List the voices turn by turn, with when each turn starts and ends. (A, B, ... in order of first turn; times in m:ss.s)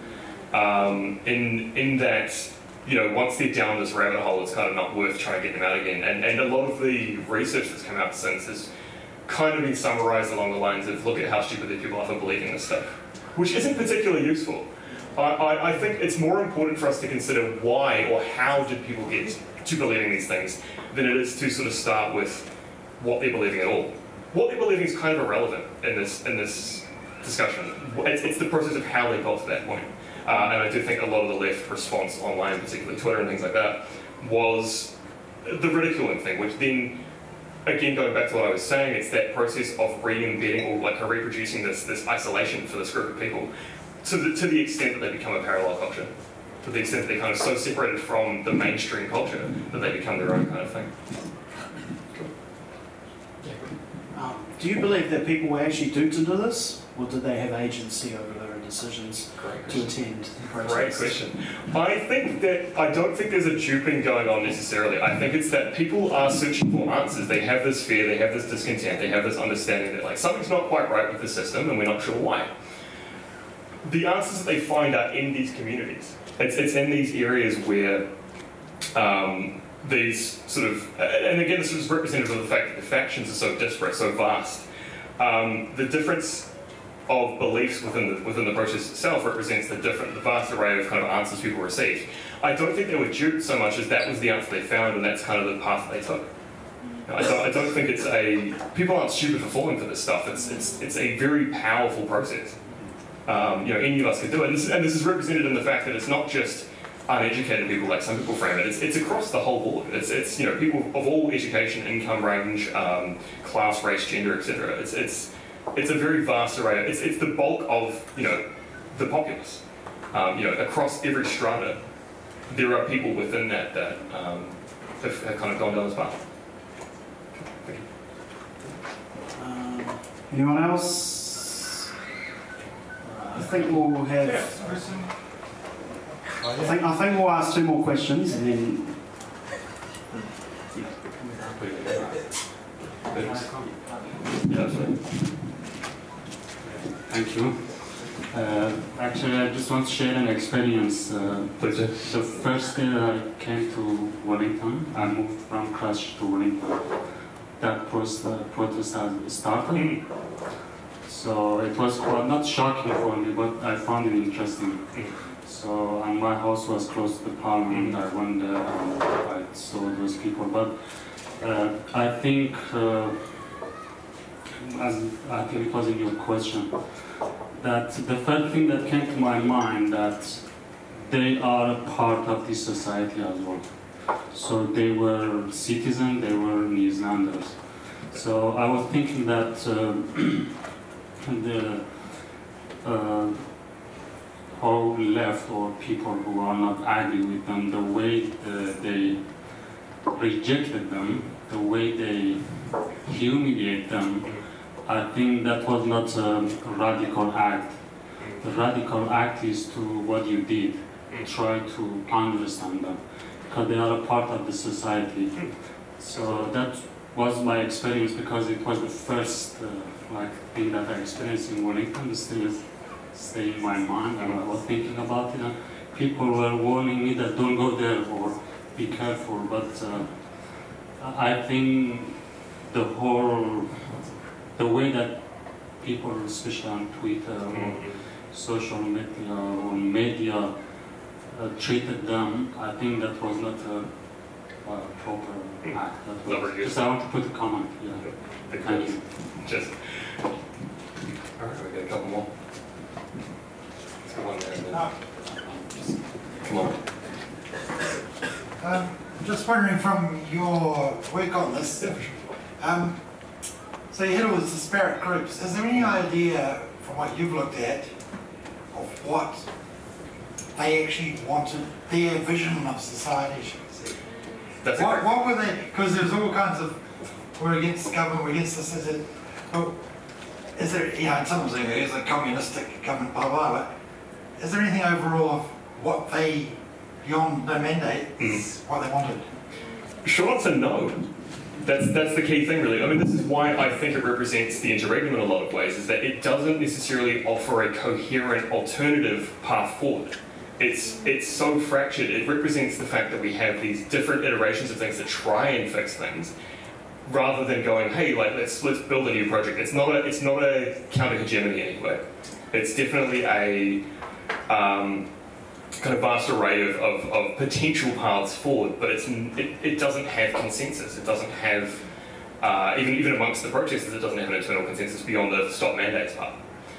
0:00.5-0:08.7 A
0:09.2-0:37.0 A
0:37.6-0:43.5 A
0:44.0-0:50.9 A
0:53.4-0:53.7 A
0:54.1-1:01.2 B
0:59.4-1:12.5 A
1:13.8-1:18.1 A
1:18.9-1:24.6 A
1:25.2-1:26.5 A
1:27.1-1:36.3 A
1:37.0-1:42.6 A
1:43.2-2:01.8 A
2:02.5-2:06.2 A
2:07.4-2:07.9 A
2:09.4-2:11.8 B
2:13.1-2:14.5 B
2:14.4-2:15.1 C
2:16.6-2:19.0 B
2:21.3-2:22.2 A
2:23.0-2:23.6 A
2:24.3-2:25.1 A
2:26.9-2:37.0 D
2:31.6-2:32.0 A
2:37.6-2:40.3 D
2:39.7-2:40.0 A
2:41.0-2:53.3 D
2:47.7-2:48.0 A
2:54.6-3:10.5 D
3:11.2-3:13.9 D
3:14.5-4:00.6 D
3:28.2-3:28.5 A
3:57.5-3:58.0 A
4:01.1-4:09.1 D
4:05.7-4:07.0 A
4:08.0-4:09.8 A
4:11.3-4:12.3 A
4:14.0-4:14.9 A
4:16.4-4:16.8 A
4:18.6-4:23.3 C
4:21.8-4:22.2 A
4:23.9-4:28.0 C
4:25.7-4:26.0 A
4:28.7-4:29.5 C
4:30.5-4:34.0 C
4:34.6-4:35.2 A
4:34.7-4:39.9 C
4:40.5-4:43.7 C
4:44.4-4:49.3 C
4:48.2-4:48.4 A
4:50.0-4:51.0 A
4:51.6-5:06.3 A
5:07.0-5:13.8 A
5:14.5-5:15.1 A
5:15.8-5:21.8 A
5:22.4-5:26.4 A